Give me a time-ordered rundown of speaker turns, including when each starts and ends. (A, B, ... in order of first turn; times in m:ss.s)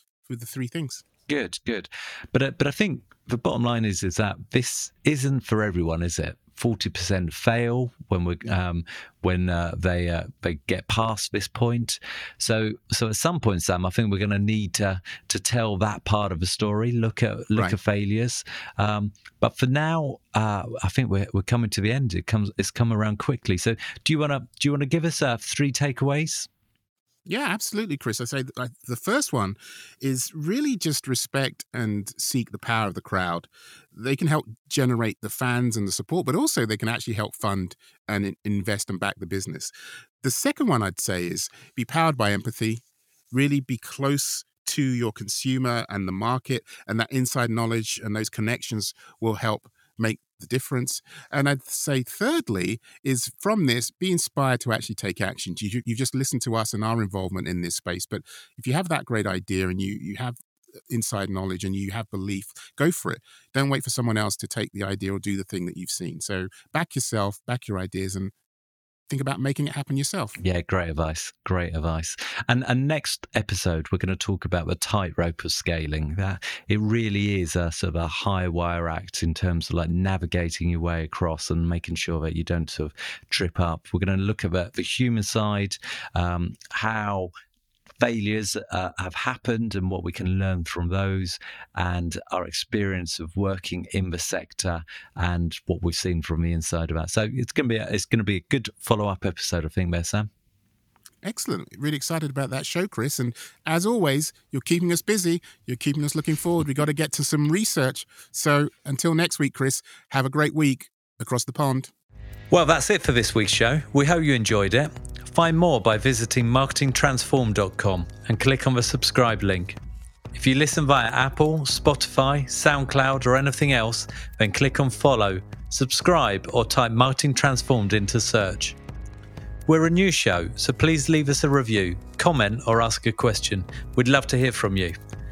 0:00.3-0:01.0 A
0:01.3-0:26.5 B
0:27.3-0:39.7 A
0:40.2-1:00.4 A
1:00.9-1:08.3 A
1:09.1-1:10.4 A
1:10.4-1:27.3 B
1:28.0-1:40.3 B
1:41.2-1:51.9 A
1:52.5-1:59.8 B
2:00.3-2:08.8 B
2:09.7-2:14.9 B